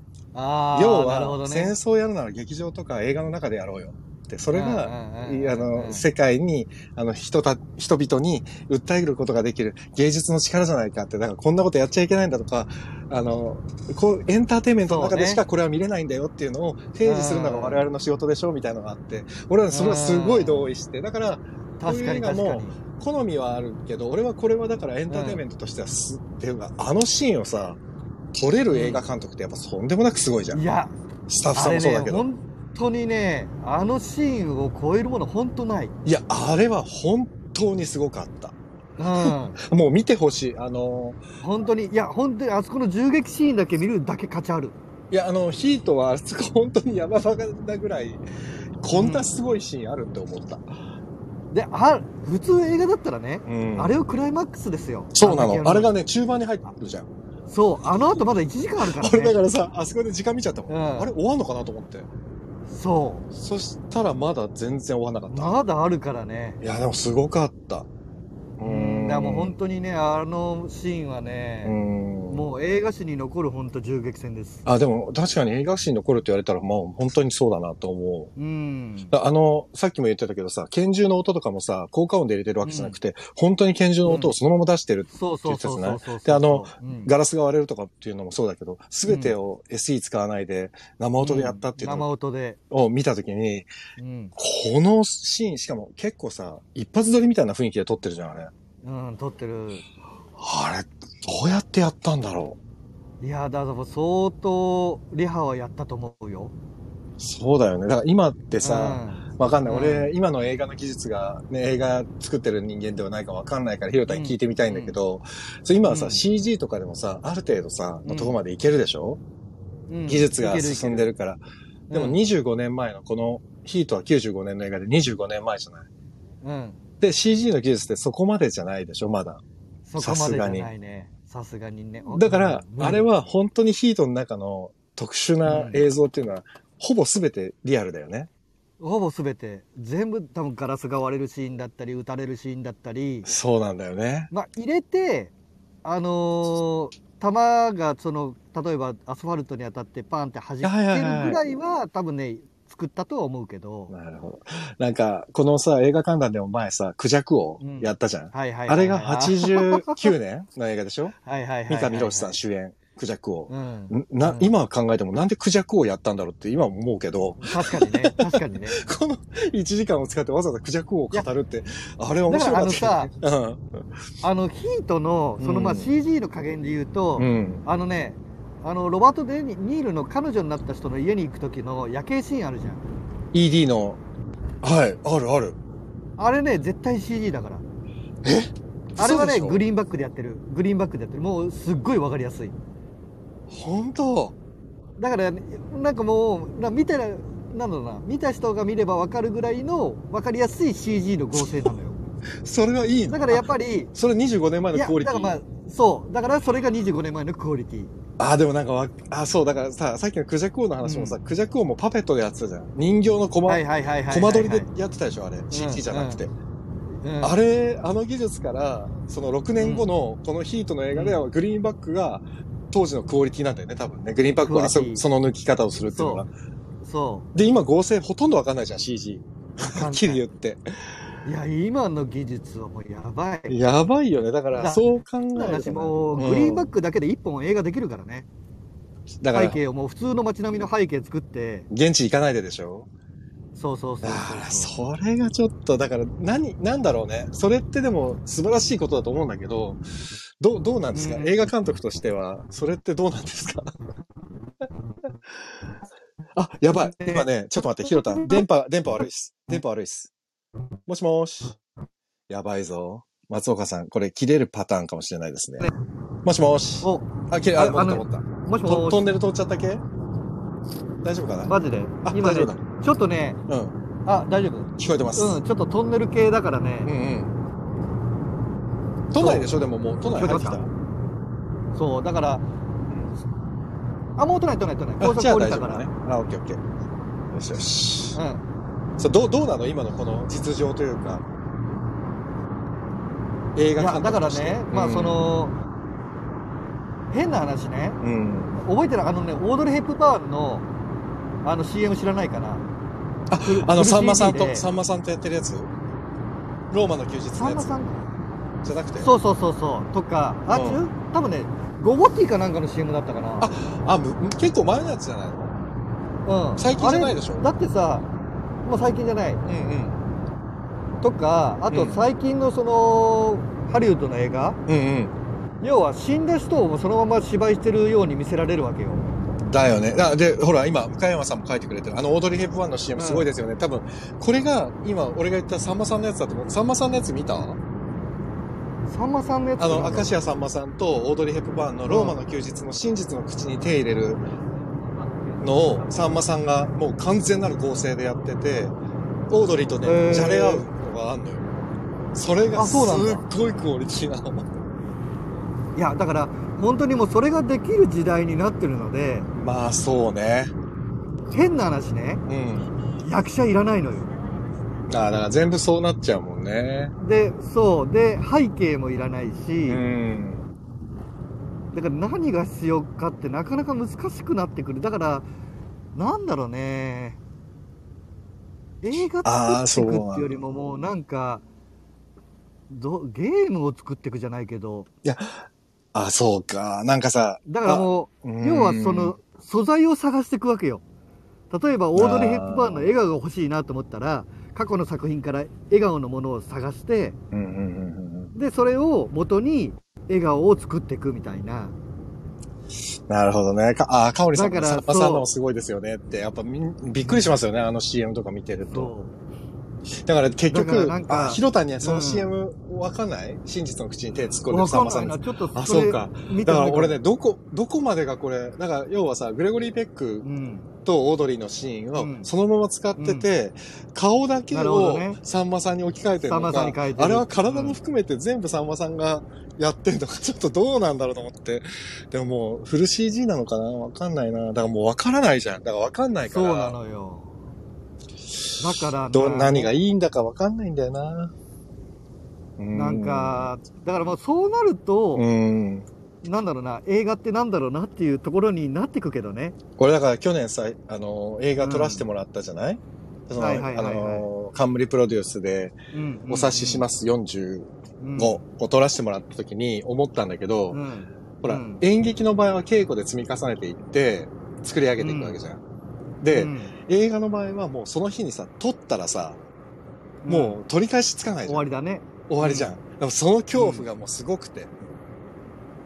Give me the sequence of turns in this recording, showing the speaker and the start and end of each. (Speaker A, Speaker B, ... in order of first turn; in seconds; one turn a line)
Speaker A: 0.3-1.8
Speaker B: 0.7-27.8
Speaker A: 4.5-6.1
Speaker A: 14.8-15.4
Speaker A: 17.1-17.9
Speaker A: 19.7-20.7
Speaker A: 21.8-22.8
Speaker A: 25.1-25.4
Speaker B: 28.4-30.6
Speaker A: 28.7-29.0
Speaker A: 30.5-30.9
Speaker B: 31.3-32.3
Speaker A: 31.5-36.0
Speaker B: 36.0-38.5
Speaker A: 39.0-39.6
Speaker B: 39.2-41.2
Speaker A: 41.4-44.8
Speaker B: 45.1-48.2
Speaker B: 48.8-50.7
Speaker A: 48.9-49.3
Speaker A: 51.5-55.9
Speaker B: 53.5-53.9
Speaker B: 55.1-57.1
Speaker A: 57.5-59.4
Speaker B: 58.8-62.1
Speaker A: 60.7-61.1
Speaker A: 62.7-63.3
Speaker B: 63.3-65.6
Speaker A: 65.3-66.6
Speaker B: 66.6-67.9
Speaker B: 68.6-69.6
Speaker A: 68.6-71.8
Speaker B: 71.6-72.5
Speaker A: 72.3-74.6
Speaker B: 74.7-78.3
Speaker A: 78.4-79.2
Speaker B: 79.1-92.1
Speaker A: 82.6-83.0
Speaker A: 84.0-84.3
Speaker A: 85.1-87.1
Speaker A: 89.0-89.3
Speaker A: 91.2-92.6
Speaker B: 92.7-93.7
Speaker A: 94.0-94.3
Speaker B: 94.4-98.5
Speaker A: 98.8-99.8
Speaker B: 100.4-102.6
Speaker A: 103.2-106.5
Speaker B: 107.2-119.2
Speaker A: 108.6-110.1
Speaker A: 114.1-115.0
Speaker A: 115.8-116.2
Speaker A: 118.1-118.3
Speaker A: 119.9-121.1
Speaker B: 120.1-125.9
Speaker A: 121.9-122.2
Speaker A: 126.4-126.8
Speaker B: 127.0-129.4
Speaker A: 129.9-133.1
Speaker B: 130.0-130.7
Speaker B: 132.1-138.3
Speaker A: 135.4-135.8
Speaker A: 138.8-143.3
Speaker B: 143.2-144.3
Speaker A: 144.3-145.3
Speaker A: 145.8-153.9
Speaker B: 150.6-151.4
Speaker B: 153.9-161.2
Speaker A: 157.6-160.1
Speaker A: 161.2-162.4
Speaker B: 161.7-173.8
Speaker A: 163.5-164.5
Speaker A: 167.4-168.8
Speaker A: 172.3-173.1
Speaker A: 174.2-182.8
Speaker B: 175.4-175.9
Speaker B: 177.2-177.7
Speaker B: 183.3-184.0
Speaker B: 184.6-185.6
Speaker A: 186.2-187.6
Speaker B: 188.2-189.6
Speaker A: 189.0-192.6
Speaker B: 193.5-194.4
Speaker A: 195.0-202.0
Speaker B: 202.4-205.4
Speaker A: 203.1-203.9
Speaker A: 204.7-207.9
Speaker B: 208.2-216.3
Speaker A: 210.8-211.2
Speaker A: 213.5-214.7
Speaker A: 215.5-216.2
Speaker A: 217.0-217.4
Speaker B: 217.2-226.3
Speaker A: 219.6-219.9
Speaker A: 220.9-221.2
Speaker A: 224.4-225.0
Speaker A: 225.9-226.3
Speaker A: 226.8-227.3
Speaker B: 227.3-230.6
Speaker A: 229.6-230.2
Speaker A: 231.2-233.6
Speaker B: 233.5-236.7
Speaker A: 234.6-238.3
Speaker B: 239.2-239.6
Speaker A: 239.3-241.7
Speaker B: 241.7-242.9
Speaker A: 243.6-244.8
Speaker B: 244.0-249.8
Speaker B: 250.4-253.7
Speaker A: 250.9-251.5
Speaker B: 256.4-260.1
Speaker A: 256.7-257.2
Speaker A: 257.9-258.4
Speaker B: 260.9-261.6
Speaker B: 262.3-265.7
Speaker B: 266.2-269.8
Speaker A: 266.8-269.0
Speaker B: 271.0-271.5
Speaker A: 271.5-273.4
Speaker B: 272.1-272.6
Speaker B: 273.5-273.8
Speaker A: 274.1-276.9
Speaker B: 274.8-275.4
Speaker B: 276.9-277.3
Speaker B: 279.1-280.7
Speaker A: 279.2-279.5
Speaker A: 280.1-280.7
Speaker A: 281.8-282.4
Speaker A: 284.2-285.9
Speaker B: 285.0-286.6
Speaker B: 287.3-288.2
Speaker A: 288.1-288.4
Speaker B: 289.0-291.2
Speaker B: 293.6-295.4
Speaker A: 293.8-295.6
Speaker A: 297.1-298.0
Speaker B: 298.0-298.6
Speaker A: 298.6-300.7
Speaker A: 301.4-302.7
Speaker B: 303.3-305.7
Speaker A: 303.4-304.7
Speaker B: 306.7-307.8
Speaker A: 307.4-308.1
Speaker B: 308.6-309.1
Speaker A: 309.0-313.5
Speaker B: 310.5-310.8
Speaker B: 313.4-315.6
Speaker A: 316.2-318.1
Speaker B: 316.6-317.5
Speaker A: 318.6-319.4
Speaker B: 319.4-320.0
Speaker A: 321.0-324.6
Speaker B: 321.7-322.1
Speaker B: 324.7-325.1
Speaker A: 325.6-329.1
Speaker B: 329.5-337.6
Speaker A: 332.9-333.3
Speaker A: 338.9-340.1
Speaker B: 339.6-344.2
Speaker A: 341.9-342.2
Speaker B: 345.4-348.8
Speaker B: 349.3-351.5
Speaker A: 349.8-350.6
Speaker B: 352.1-354.5
Speaker A: 352.6-353.2
Speaker A: 355.8-359.3
Speaker B: 359.4-360.5
Speaker A: 361.3-362.2
Speaker B: 362.3-362.8
Speaker A: 363.0-364.1
Speaker B: 364.9-366.9
Speaker A: 367.0-369.8
Speaker B: 369.7-370.5
Speaker A: 371.7-375.3
Speaker A: 375.9-377.2
Speaker A: 378.8-381.4
Speaker B: 379.2-380.4
Speaker A: 382.7-384.9
Speaker B: 385.0-389.2
Speaker A: 387.5-390.8
Speaker A: 391.5-397.2
Speaker B: 392.0-392.9
Speaker B: 397.3-398.3
Speaker A: 398.3-401.8
Speaker B: 403.1-408.9
Speaker A: 404.3-405.3
Speaker A: 407.0-407.4
Speaker A: 408.7-409.2
Speaker B: 410.1-420.3
Speaker A: 410.5-412.3
Speaker A: 414.5-417.0
Speaker A: 420.2-420.7
Speaker B: 420.9-436.8
Speaker A: 422.0-422.3
Speaker A: 423.0-423.3
Speaker A: 424.5-425.2
Speaker A: 426.2-427.8
Speaker A: 436.2-437.4
Speaker A: 438.6-439.7
Speaker B: 439.1-441.3
Speaker B: 442.6-443.5
Speaker A: 442.7-445.3
Speaker B: 445.1-445.9
Speaker A: 446.2-449.6
Speaker B: 449.8-455.8
Speaker A: 451.6-452.1
Speaker A: 453.4-454.3
Speaker A: 455.9-456.9
Speaker B: 456.3-460.8
Speaker A: 458.0-458.4
Speaker A: 460.7-461.8
Speaker B: 461.4-465.6
Speaker A: 465.0-465.4
Speaker B: 466.2-469.4
Speaker A: 466.3-466.7
Speaker A: 470.2-470.6
Speaker B: 470.3-471.7
Speaker A: 471.4-472.8
Speaker B: 472.3-474.9
Speaker A: 473.6-473.9